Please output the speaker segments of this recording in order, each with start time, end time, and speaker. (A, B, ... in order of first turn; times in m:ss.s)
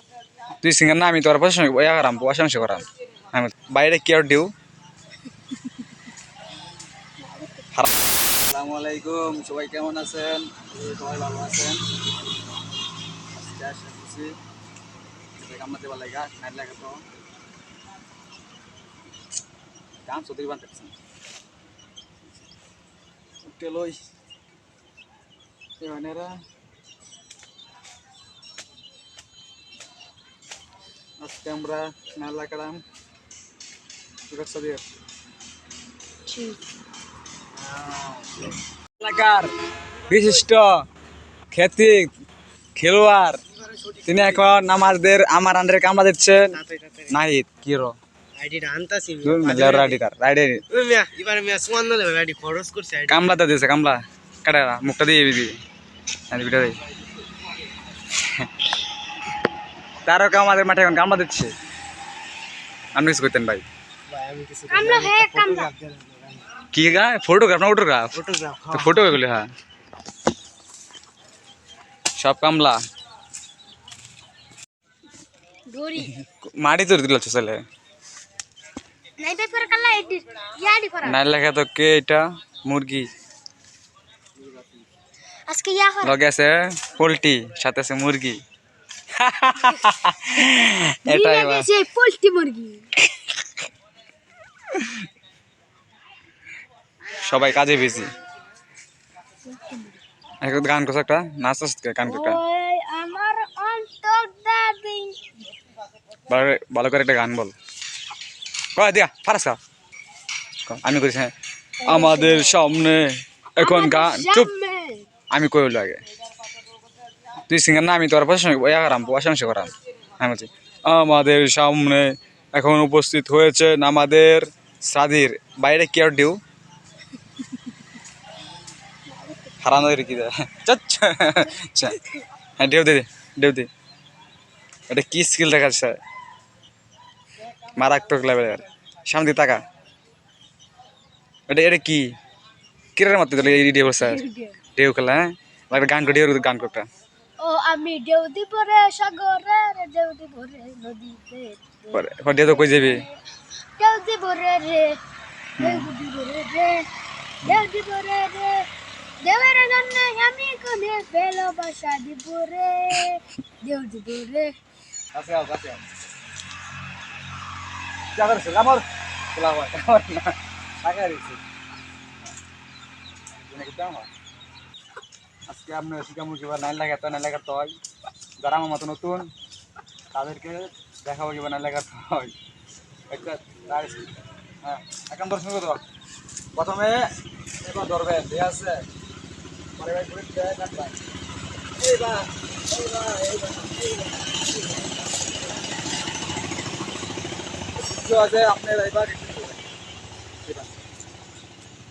0:00.6-0:04.5 A
0:07.2-0:07.7 B
0:08.4-0:11.8 A
0:13.3-0:14.3 A
0:15.4-0:17.0 A
0:20.1-0:20.9 A
0:23.4-0:24.0 A
0:25.8-0:26.4 A
0:31.2-0:32.8 A
0:34.3-0:34.8 A
0:36.3-0:36.6 B
0:37.7-0:38.1 A
0:39.0-0:39.5 A
0:40.1-0:40.8 A
0:41.5-0:42.1 A
0:42.8-0:43.4 A
0:43.8-0:44.4 C
0:44.1-0:46.6 A
0:46.5-0:47.2 C
0:47.1-0:48.0 A
0:48.4-0:50.0 C
0:49.2-0:50.6 A
0:50.7-0:53.3 C
0:53.1-0:55.6 A
0:56.3-0:56.8 A
1:00.0-1:01.5 A
1:02.9-1:03.6 A
1:04.1-1:06.4 C
1:04.7-1:05.7 B
1:06.7-1:08.1 A
1:08.1-1:09.2 C
1:08.7-1:09.5 A
1:12.2-1:12.8 A
1:15.7-1:16.1 B
1:16.0-1:17.6 A
1:19.2-1:21.2 B
1:21.0-1:23.1 A
1:25.5-1:26.2 B
1:26.0-1:28.4 A
1:29.2-1:31.7 A
1:31.1-1:32.9 B
1:34.7-1:35.0 A
1:37.2-1:38.1 A
1:39.5-1:40.0 B
1:40.4-1:42.4 A
1:42.0-1:45.2 B
1:46.3-1:47.5 A
1:48.8-1:49.6 A
1:50.7-1:51.3 A
1:51.8-1:52.5 B
1:51.9-1:54.5 A
1:53.6-1:55.1 B
1:55.3-1:56.0 A
1:57.5-2:06.4 A
2:09.1-2:10.0 B
2:09.6-2:12.0 A
2:11.8-2:12.2 B
2:12.6-2:13.7 A
2:14.9-2:16.0 A
2:17.8-2:19.6 A
2:21.5-2:22.1 A
2:23.0-2:24.2 A
2:23.8-2:24.6 B
2:24.8-2:26.9 A
2:27.4-2:33.2 B
2:31.9-2:33.0 A
2:33.8-2:35.0 B
2:35.6-2:35.9 A
2:35.6-2:36.9 B
2:37.4-2:38.6 B
2:39.2-2:44.5 B
2:45.1-2:45.9 A
2:48.1-2:51.4 A
2:53.5-2:54.1 A
2:55.5-2:57.8 A
2:58.4-2:59.3 A
3:00.1-3:02.3 A
3:03.1-3:05.8 A
3:06.5-3:07.0 A
3:07.6-3:08.8 A
3:09.8-3:11.0 A
3:11.8-3:14.2 A
3:17.9-3:19.6 A
3:20.4-3:20.8 A